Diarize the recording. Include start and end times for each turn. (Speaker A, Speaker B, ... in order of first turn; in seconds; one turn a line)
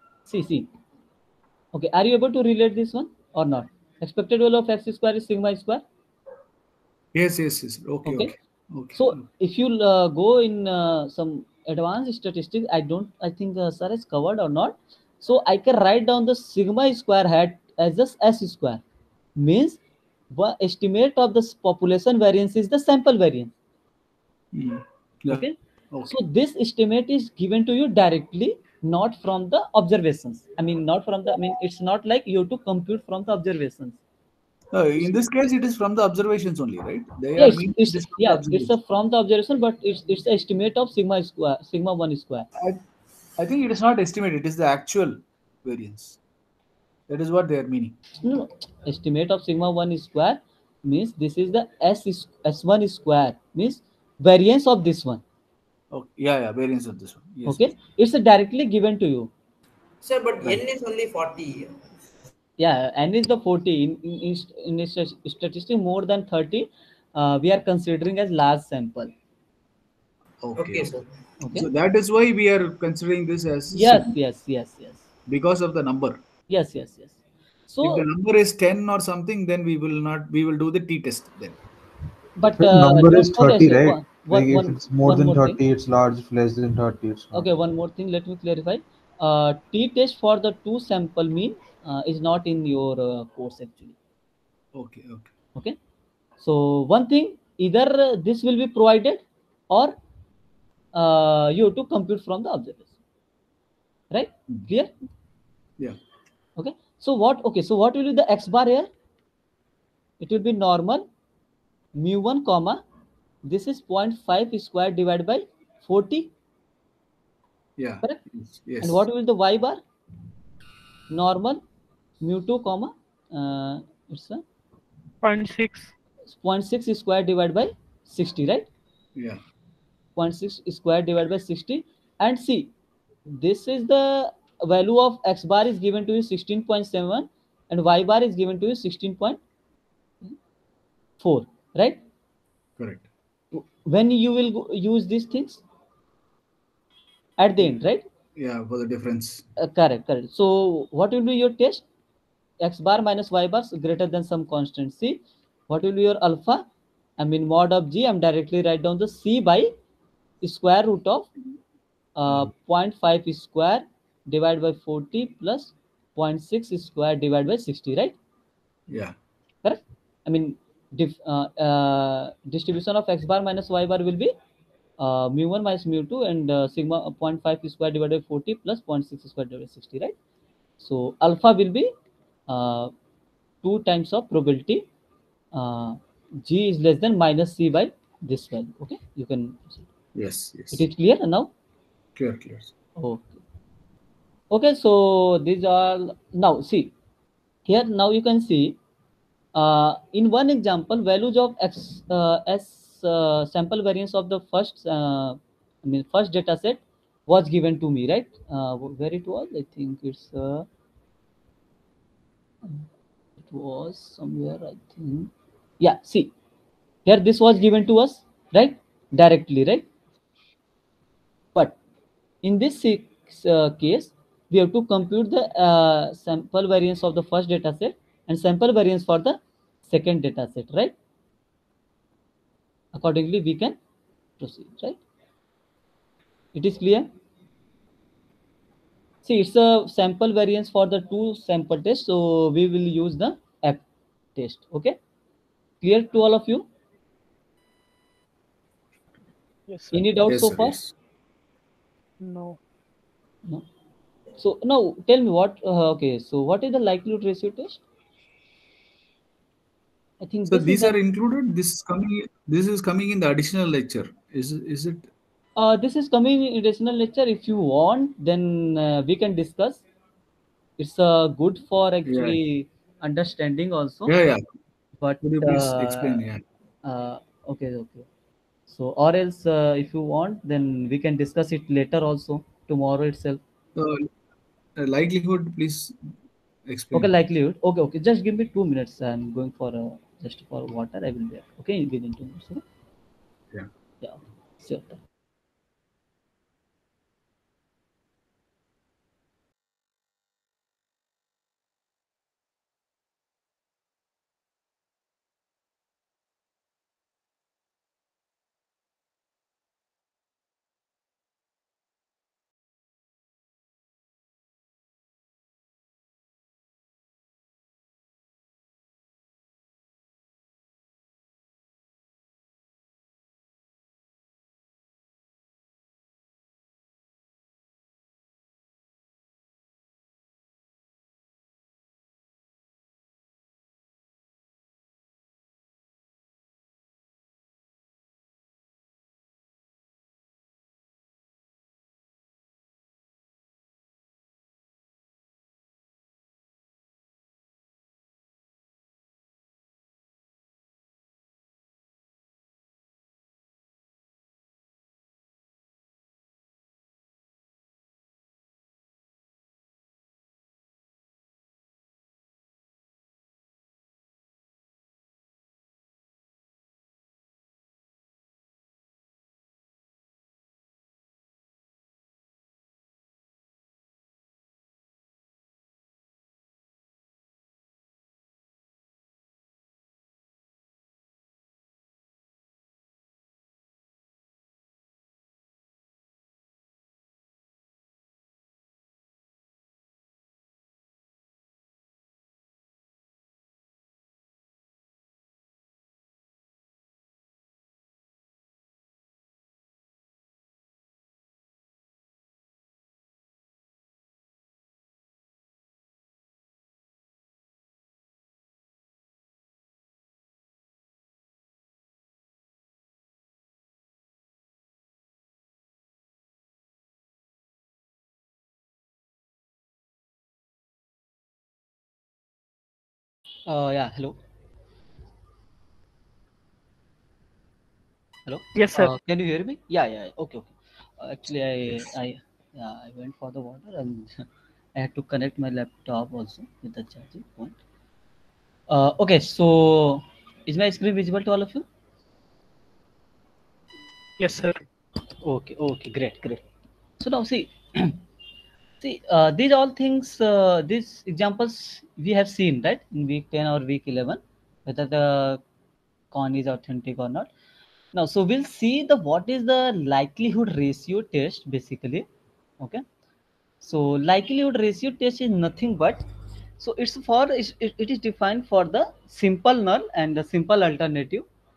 Speaker A: 0.3-0.7
Speaker A: 1.7-5.8
Speaker B: 7.1-9.2
Speaker A: 8.1-8.3
Speaker A: 9.0-18.8
Speaker A: 19.4-19.8
Speaker A: 20.3-23.5
Speaker B: 24.5-26.2
Speaker A: 26.1-34.0
Speaker B: 34.7-38.7
Speaker A: 37.4-42.5
Speaker B: 43.4-46.2
Speaker B: 47.1-47.9
Speaker A: 48.2-55.2
Speaker B: 55.9-57.7
Speaker A: 57.5-59.3
Speaker C: 60.0-61.8
Speaker A: 62.6-69.1
Speaker B: 70.4-71.0
Speaker C: 70.6-71.1
Speaker A: 71.4-71.7
Speaker B: 71.5-74.1
Speaker A: 73.7-75.0
Speaker B: 75.3-76.2
Speaker A: 76.5-77.1
Speaker A: 77.7-78.0
Speaker B: 77.8-81.6
Speaker A: 82.4-85.6
Speaker D: 82.5-87.5
Speaker A: 87.3-94.0
Speaker B: 94.7-95.3
Speaker A: 96.4-100.0
Speaker A: 100.9-102.9
Speaker A: 104.1-104.9
Speaker A: 106.6-108.9
Speaker A: 110.2-111.0
Speaker A: 112.0-112.8
Speaker A: 113.4-116.3
Speaker B: 117.8-119.0
Speaker A: 118.8-119.8
Speaker A: 121.1-121.6
Speaker A: 122.2-124.4
Speaker E: 125.2-125.9
Speaker A: 126.3-128.7
Speaker A: 130.2-132.7
Speaker A: 133.2-139.4
Speaker A: 141.2-142.0
Speaker B: 142.8-143.1
Speaker A: 143.5-145.6
Speaker A: 147.4-148.0
Speaker B: 148.3-149.4
Speaker A: 149.6-151.8
Speaker A: 152.6-156.6
Speaker A: 157.2-159.7
Speaker A: 160.4-161.3
Speaker A: 162.2-168.1
Speaker B: 168.9-169.2
Speaker A: 169.6-174.3
Speaker A: 175.0-180.1
Speaker A: 180.8-181.9
Speaker A: 182.5-182.9
Speaker A: 183.6-184.8
Speaker A: 185.5-189.8
Speaker B: 190.1-190.8
Speaker A: 190.7-191.5
Speaker B: 192.2-192.7
Speaker A: 193.0-193.4
Speaker A: 194.5-196.9
Speaker A: 197.7-198.8
Speaker A: 199.5-210.7
Speaker A: 213.4-216.3
Speaker A: 217.1-219.8
Speaker A: 222.4-230.9
Speaker A: 232.9-233.8
Speaker A: 234.4-235.0
Speaker A: 236.5-237.1
Speaker A: 239.2-243.8
Speaker A: 244.3-244.9
Speaker A: 245.8-246.6
Speaker E: 249.7-250.0
Speaker A: 249.9-250.7
Speaker B: 250.3-250.9
Speaker E: 252.2-252.6
Speaker A: 254.4-257.8
Speaker A: 260.2-260.9
Speaker B: 260.5-265.1
Speaker A: 265.6-269.8
Speaker A: 270.8-274.1
Speaker B: 272.1-272.4
Speaker B: 274.1-274.4
Speaker A: 275.0-276.2
Speaker B: 275.2-276.4
Speaker A: 276.8-278.1
Speaker A: 278.7-283.4
Speaker B: 283.8-284.1
Speaker B: 284.8-286.0
Speaker B: 286.7-287.1
Speaker A: 286.9-292.6
Speaker A: 294.0-295.0
Speaker A: 423.4-424.1
Speaker A: 428.2-434.2
Speaker E: 428.5-428.9
Speaker A: 434.8-437.6
Speaker A: 438.7-441.6
Speaker E: 444.2-444.6
Speaker A: 445.2-446.4
Speaker A: 447.0-448.0
Speaker A: 448.8-455.4
Speaker A: 456.1-457.3
Speaker A: 457.9-462.0
Speaker A: 463.6-466.0
Speaker A: 466.6-471.2